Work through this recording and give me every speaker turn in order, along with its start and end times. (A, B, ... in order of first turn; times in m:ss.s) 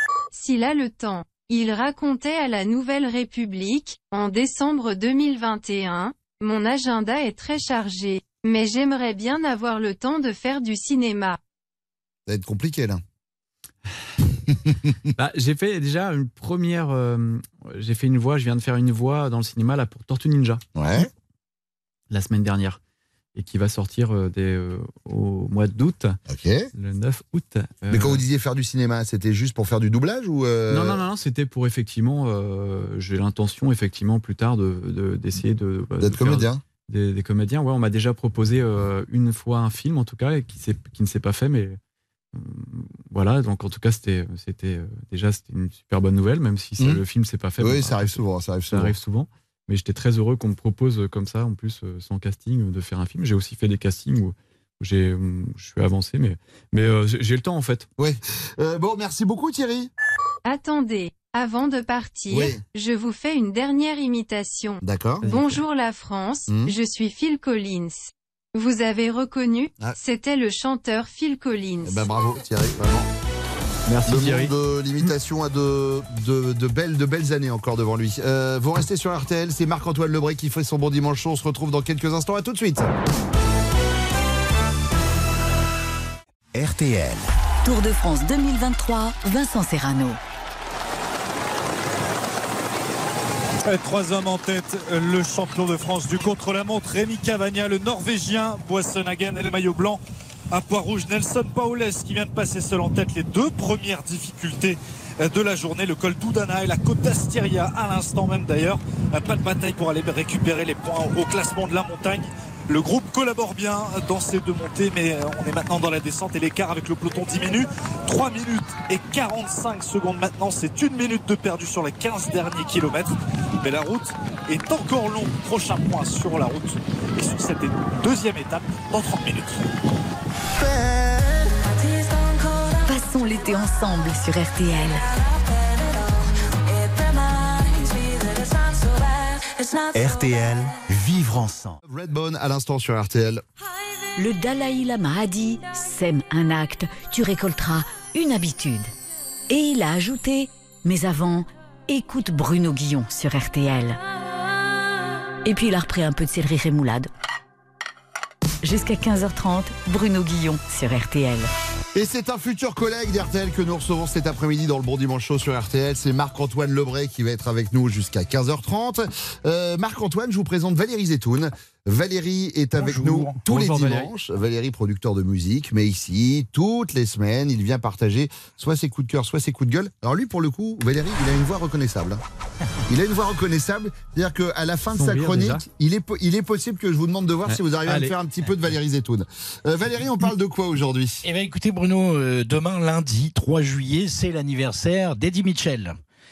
0:00.3-0:11.4 A
0:12.3-0:13.0 B
0:15.2-0:20.6 C
0:20.8-0:21.1 B
0:22.1-0:22.8 C
0:23.4-0:26.2 C
0:26.3-0:26.7 B
0:26.8-0:28.2 C
0:27.9-0:31.0 B
0:30.7-0:41.8 C
0:36.0-0:36.6 B
0:42.3-0:48.2 C
0:47.6-0:48.9 B
0:48.7-0:57.9 C
0:58.0-0:59.9 B
1:00.5-1:12.1 A
1:02.3-1:02.6 B
1:04.8-1:05.3 B
1:05.2-1:05.6 C
1:11.8-1:13.1 B
1:13.9-1:14.5 C
1:14.1-1:22.9 B
1:26.5-1:27.3 D
1:27.6-1:30.2 E
1:33.6-1:40.0 F
1:40.5-2:09.6 F
2:12.8-2:15.1 E
2:19.9-2:21.8 D
2:21.8-2:23.4 B
2:24.2-2:28.9 E
2:29.5-2:34.0 E
2:35.4-2:37.1 E
2:38.6-2:41.5 E
2:42.0-3:02.2 B
2:52.8-2:54.1 C
3:02.9-3:11.2 B
3:04.9-3:05.6 C
3:07.5-3:08.2 C
3:11.2-3:16.0 G